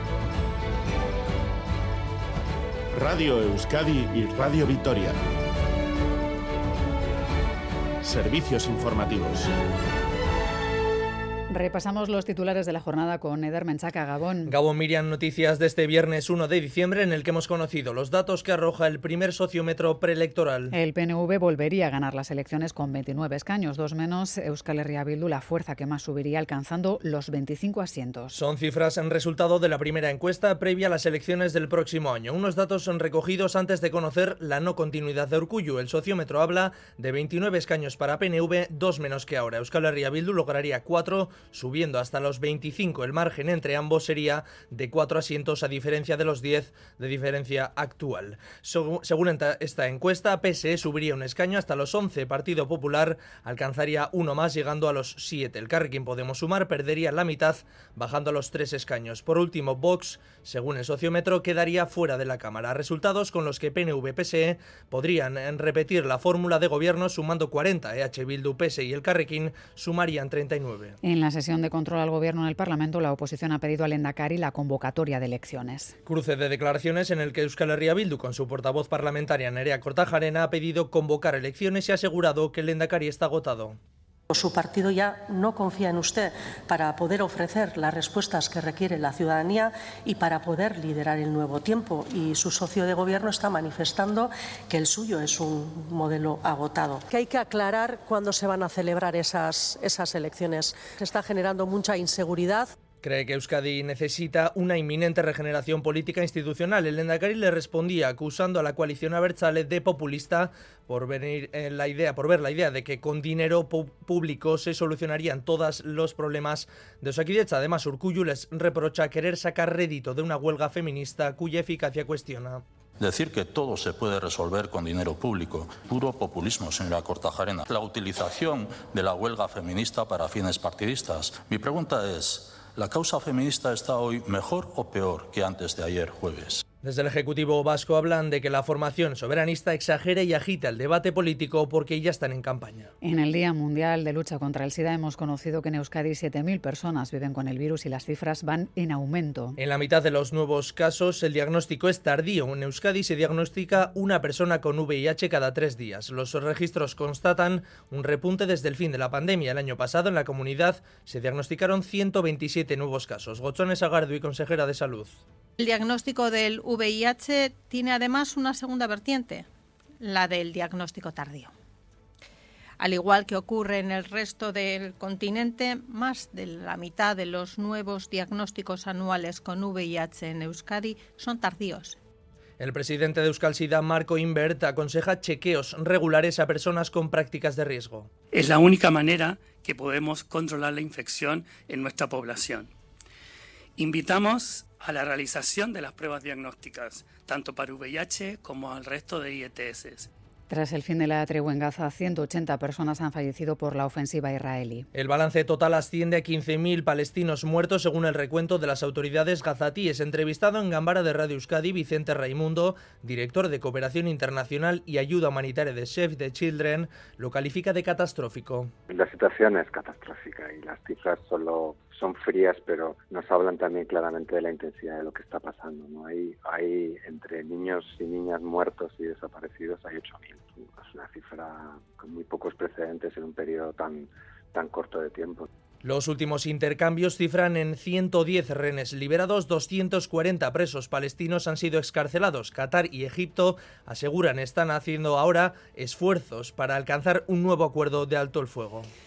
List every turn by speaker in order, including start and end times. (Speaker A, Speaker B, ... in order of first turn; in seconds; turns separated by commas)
Speaker A: 2.9-5.2, Speaker A: 8.0-9.5, Speaker B: 11.5-14.5, Speaker C: 14.4-20.7, Speaker B: 20.7-28.4, Speaker C: 28.3-71.0, Speaker B: 71.0-76.0, Speaker C: 76.0-83.8, Speaker D: 84.3-102.7, Speaker C: 103.0-122.6, Speaker E: 123.0-136.6, Speaker C: 136.8-142.9, Speaker B: 143.0-149.6, Speaker C: 149.6-165.2, Speaker F: 165.6-169.5, Speaker F: 170.0-171.5, Speaker F: 172.8-182.0, Speaker C: 182.6-188.1, Speaker G: 188.3-192.7, Speaker G: 193.8-200.1, Speaker B: 200.5-204.9, Speaker C: 204.9-218.7, Speaker H: 218.9-235.5, Speaker C: 235.8-248.9